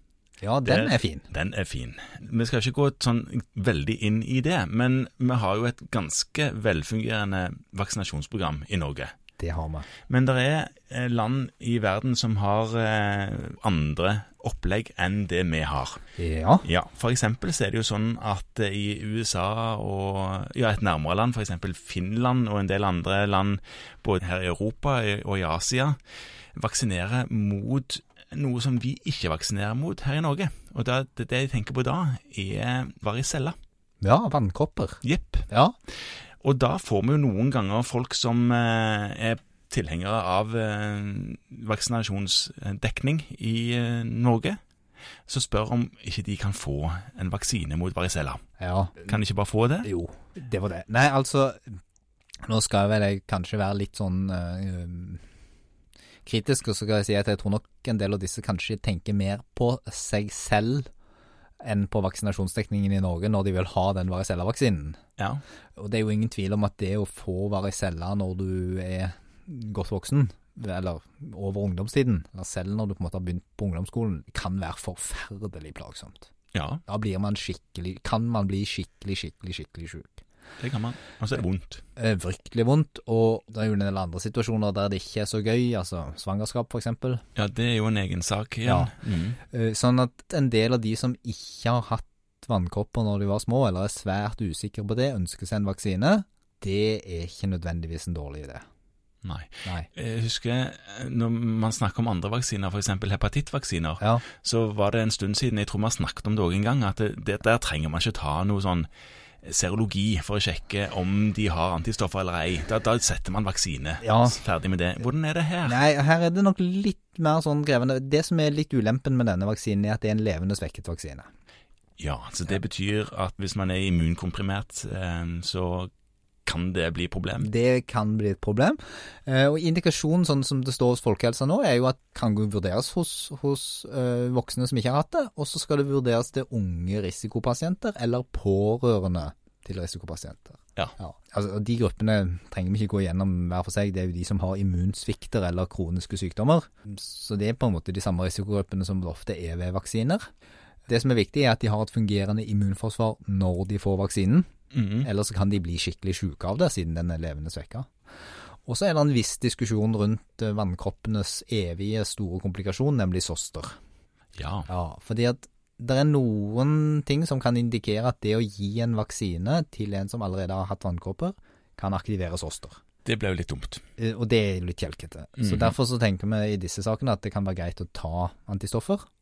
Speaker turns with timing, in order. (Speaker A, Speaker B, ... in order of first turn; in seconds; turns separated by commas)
Speaker A: 0.4-1.3, Speaker B: 0.7-9.1, Speaker A: 9.4-9.9, Speaker B: 10.1-16.0, Speaker A: 16.2-16.7, Speaker B: 16.6-26.0, Speaker B: 26.6-33.6, Speaker A: 34.0-35.8, Speaker B: 35.0-35.5, Speaker B: 36.4-44.6, Speaker B: 45.3-48.4, Speaker A: 48.6-49.1, Speaker B: 49.0-49.9, Speaker A: 49.8-51.8, Speaker A: 52.5-55.2, Speaker A: 56.3-60.9, Speaker A: 61.6-65.0, Speaker A: 65.8-76.3, Speaker B: 76.5-76.8, Speaker A: 76.9-80.2, Speaker B: 80.6-81.8, Speaker A: 82.0-87.2, Speaker B: 87.4-89.4, Speaker A: 88.7-88.9, Speaker A: 89.5-98.7, Speaker B: 99.2-108.9, Speaker B: 109.4-115.8, Speaker A: 114.0-114.4, Speaker A: 115.7-121.3, Speaker B: 122.0-125.9, Speaker B: 126.5-127.5, Speaker A: 127.4-150.2, Speaker A: 150.9-154.5, Speaker B: 154.7-155.1, Speaker A: 155.0-157.9, Speaker A: 158.7-163.8, Speaker B: 164.4-164.7, Speaker A: 164.7-172.8, Speaker B: 173.1-173.8, Speaker A: 174.0-179.1, Speaker B: 175.4-175.8